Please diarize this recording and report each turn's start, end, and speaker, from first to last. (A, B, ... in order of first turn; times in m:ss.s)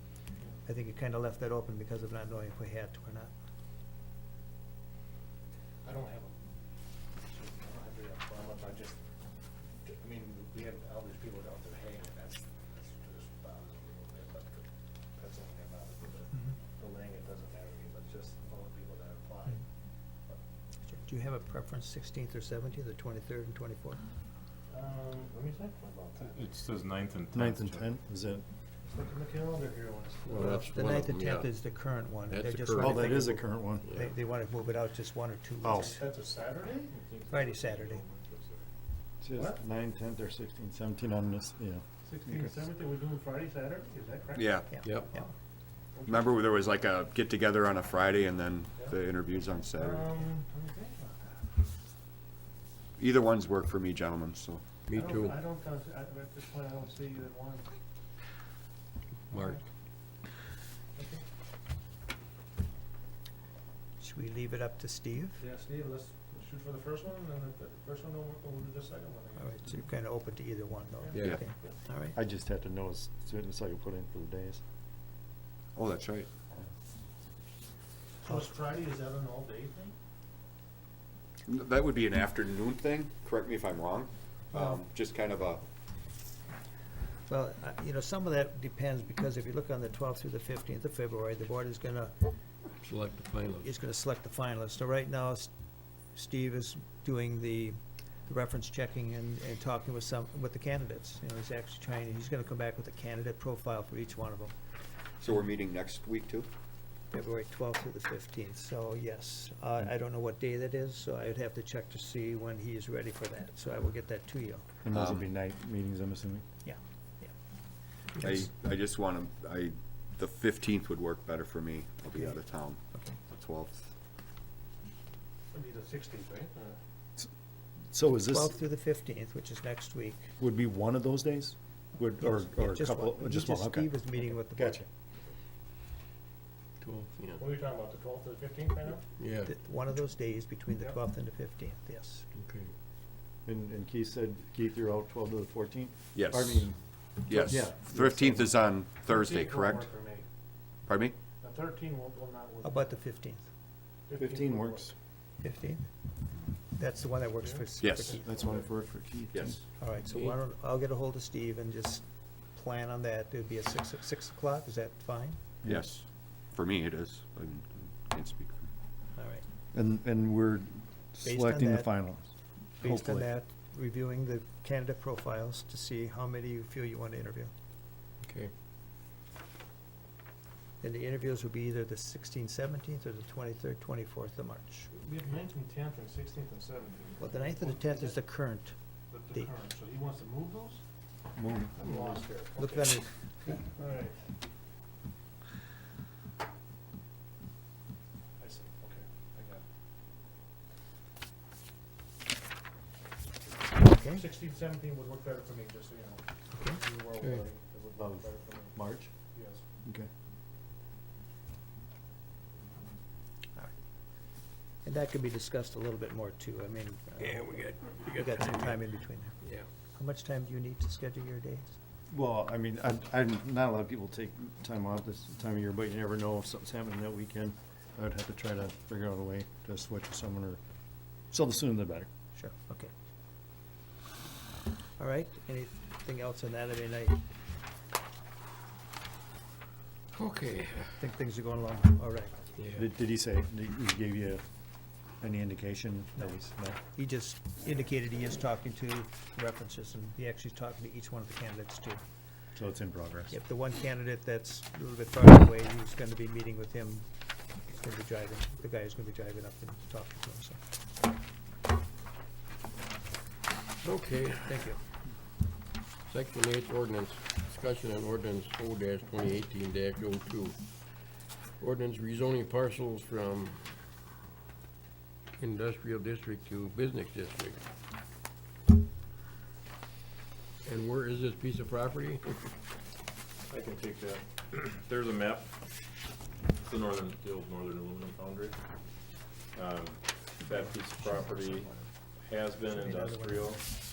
0:00.6-0:03.3 A
0:05.8-0:06.4 B
0:07.2-0:09.0 B
0:09.8-0:19.6 B
0:20.9-0:24.0 A
0:24.7-0:26.4 B
0:26.3-0:27.9 C
0:27.3-0:28.5 D
0:28.8-0:30.4 B
0:30.2-0:31.6 E
0:30.3-0:36.0 A
0:32.3-0:33.3 E
0:32.8-0:33.9 D
0:33.8-0:34.1 E
0:35.6-0:35.9 D
0:35.7-0:36.9 B
0:36.9-0:38.6 C
0:37.3-0:38.0 A
0:39.2-0:42.5 D
0:39.3-0:39.6 B
0:42.0-0:44.6 B
0:44.4-0:44.8 F
0:44.7-0:45.3 A
0:44.8-0:45.1 E
0:46.0-0:46.3 B
0:46.1-0:50.2 F
0:49.8-0:51.4 B
0:53.0-0:54.6 F
0:54.9-0:55.4 E
0:54.9-0:57.7 B
0:59.3-0:59.6 E
0:59.3-0:59.6 B
1:01.0-1:01.2 B
1:04.0-1:05.4 A
1:05.4-1:09.7 B
1:09.4-1:12.2 A
1:11.0-1:11.7 B
1:11.1-1:11.4 E
1:12.1-1:14.6 D
1:15.8-1:16.3 F
1:18.2-1:20.0 B
1:21.5-1:25.6 F
1:27.3-1:32.3 A
1:32.8-1:33.7 E
1:33.6-1:35.5 A
1:36.1-1:44.5 A
1:45.2-1:46.5 F
1:47.1-1:54.6 A
1:54.8-1:56.4 D
1:54.9-1:55.2 F
1:56.6-1:57.3 A
1:58.2-2:03.9 F
2:05.5-2:06.8 B
2:07.9-2:08.6 D
2:08.2-2:10.3 A
2:10.4-2:14.9 D
2:12.2-2:14.8 A
2:16.8-2:17.5 E
2:17.4-2:19.0 B
2:19.2-2:19.5 E
2:19.5-2:22.2 A
2:22.3-2:22.7 E
2:23.4-2:26.8 D
2:26.2-2:26.7 F
2:27.2-2:29.9 F
2:27.3-2:28.5 D
2:29.1-2:30.3 B
2:30.9-2:31.2 F
2:31.4-2:33.0 B
2:32.6-2:33.5 A
2:34.1-2:34.9 B
2:34.2-2:34.9 D
2:35.4-2:35.9 A
2:36.8-2:38.6 A
2:37.4-2:37.7 B
2:37.8-2:38.2 F
2:38.1-2:39.6 D
2:39.3-2:39.6 F
2:39.8-2:45.4 A
2:45.6-2:45.9 D
2:45.7-2:48.6 F
2:49.2-2:49.4 A
2:49.7-2:53.3 D
2:51.2-2:52.0 A
2:52.8-2:57.5 A
2:58.2-2:58.5 E
3:00.8-3:04.9 A
3:05.0-3:08.2 B
3:07.2-3:08.8 A
3:09.1-3:10.8 B
3:11.4-3:12.2 D
3:11.7-3:14.3 B
3:12.6-3:13.1 A
3:18.4-3:19.7 B
3:23.8-3:24.3 A
3:24.1-3:29.6 B
3:26.5-3:26.8 A
3:27.2-3:27.4 E
3:28.0-3:29.1 D
3:29.8-3:30.1 D
3:34.8-3:39.4 A
3:37.2-3:38.9 E
3:39.4-3:39.7 E
3:39.9-3:41.7 A
3:42.1-3:50.6 D
3:51.3-3:52.1 D
3:52.4-3:52.9 A
3:55.0-3:57.2 A
4:00.1-4:01.0 E
4:01.0-4:02.5 A
4:02.6-4:02.9 E
4:02.8-4:04.4 D
4:05.2-4:06.8 D
4:06.2-4:12.0 A
4:12.6-4:13.4 D
4:13.3-4:17.1 A
4:17.7-4:20.6 A
4:23.8-4:24.7 E
4:24.5-4:24.8 A
4:26.0-4:30.6 E
4:31.6-4:33.7 E
4:35.3-4:37.6 E
4:40.6-4:42.5 E
4:43.5-4:45.5 C
4:46.6-4:48.6 C
4:49.5-4:53.7 C
4:50.5-4:51.8 A
4:52.6-4:53.6 A